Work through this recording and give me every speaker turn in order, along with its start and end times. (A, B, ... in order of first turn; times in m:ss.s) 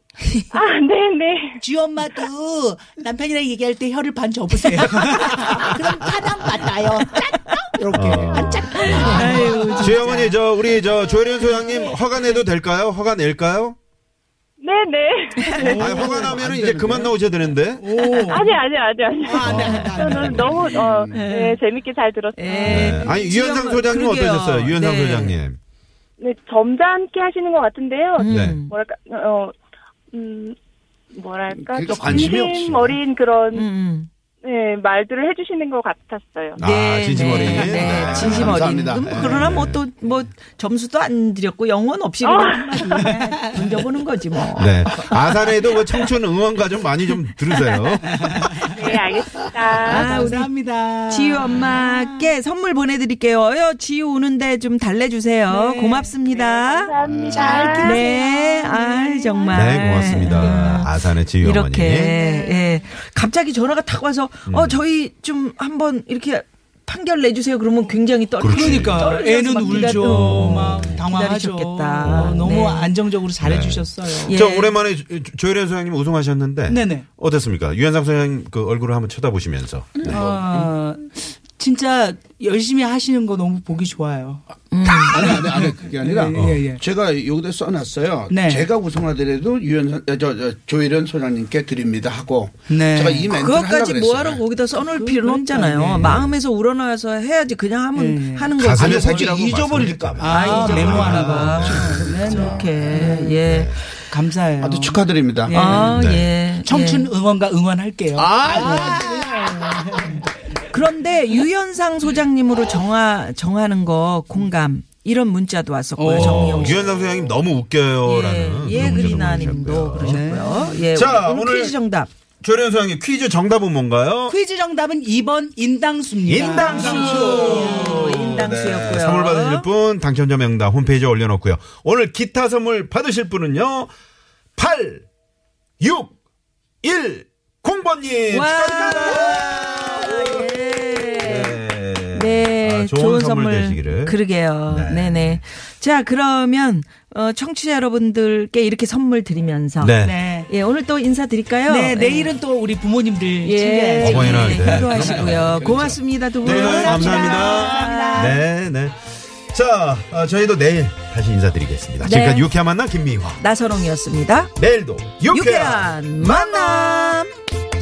0:00.5-0:01.6 A
0:01.6-0:10.3 B
0:07.9-0:13.8 C
0:08.9-0:10.4 D
0:14.6-0:16.2 A
0:15.6-0:16.4 B
0:15.7-0:18.0 C
0:16.2-0:17.2 E
0:17.8-0:18.6 B
0:18.1-0:23.2 A
0:19.2-0:20.8 B
0:19.4-0:20.5 C
0:20.7-0:21.2 E
0:21.1-0:21.6 D
0:22.4-0:25.4 D
0:22.7-0:25.6 C
0:26.2-0:29.6 A
0:28.2-0:28.7 D
0:28.3-0:28.6 C
0:30.1-0:30.6 A
0:31.1-0:33.7 A
0:31.5-0:33.0 E
0:32.1-0:32.4 C
0:33.6-0:34.1 D
0:34.4-0:36.6 A
0:36.6-0:39.8 C
0:36.6-0:45.2 D
0:37.7-0:39.6 E
0:42.2-0:43.1 A
0:44.6-0:48.7 C
0:47.6-0:47.8 D
0:48.1-0:48.8 B
0:48.8-0:50.3 A
0:49.8-0:52.3 B
0:49.9-0:50.5 D
0:51.1-0:56.9 D
0:55.5-0:56.1 B
0:56.3-0:59.6 A
0:57.2-0:58.2 B
0:57.8-1:12.9 D
0:59.5-1:02.2 C
1:00.0-1:00.8 B
1:02.1-1:02.8 B
1:04.5-1:04.8 C
1:08.4-1:11.0 C
1:08.5-1:14.4 B
1:12.0-1:12.6 C
1:13.4-1:20.2 C
1:14.2-1:14.8 D
1:16.7-1:17.1 B
1:20.0-1:20.7 E
1:20.1-1:26.8 B
1:24.7-1:25.2 D
1:24.8-1:34.4 E
1:28.3-1:28.7 B
1:32.7-1:33.3 B
1:33.3-1:43.8 D
1:34.8-1:36.1 B
1:36.0-1:36.4 C
1:38.0-1:38.6 B
1:38.6-1:42.2 C
1:38.7-1:43.3 E
1:40.2-1:43.4 B
1:43.4-1:43.8 C
1:44.1-1:46.0 B
1:44.6-1:45.9 E
1:45.5-1:47.1 D
1:45.9-1:46.3 C
1:46.6-1:50.3 B
1:48.2-1:50.0 E
1:50.7-1:56.8 D
1:56.0-1:56.8 B
1:56.1-2:00.3 C
1:58.0-2:02.1 D
1:58.8-2:00.9 B
2:00.9-2:01.8 C
2:02.4-2:04.4 C
2:04.3-2:07.8 B
2:06.3-2:13.9 C
2:06.6-2:08.0 E
2:06.6-2:09.7 D
2:14.6-2:15.1 C
2:15.8-2:16.2 C
2:16.8-2:25.4 C
2:18.3-2:21.6 D
2:22.1-2:32.3 D
2:29.8-2:30.2 C
2:30.0-2:30.5 B
2:31.7-2:34.8 B
2:33.4-2:38.4 D
2:34.0-2:35.7 C
2:34.8-2:36.0 E
2:36.4-2:43.4 C
2:36.4-2:38.4 B
2:42.0-2:42.5 D
2:43.4-2:44.5 D
2:44.6-2:46.5 C
2:45.3-2:47.3 D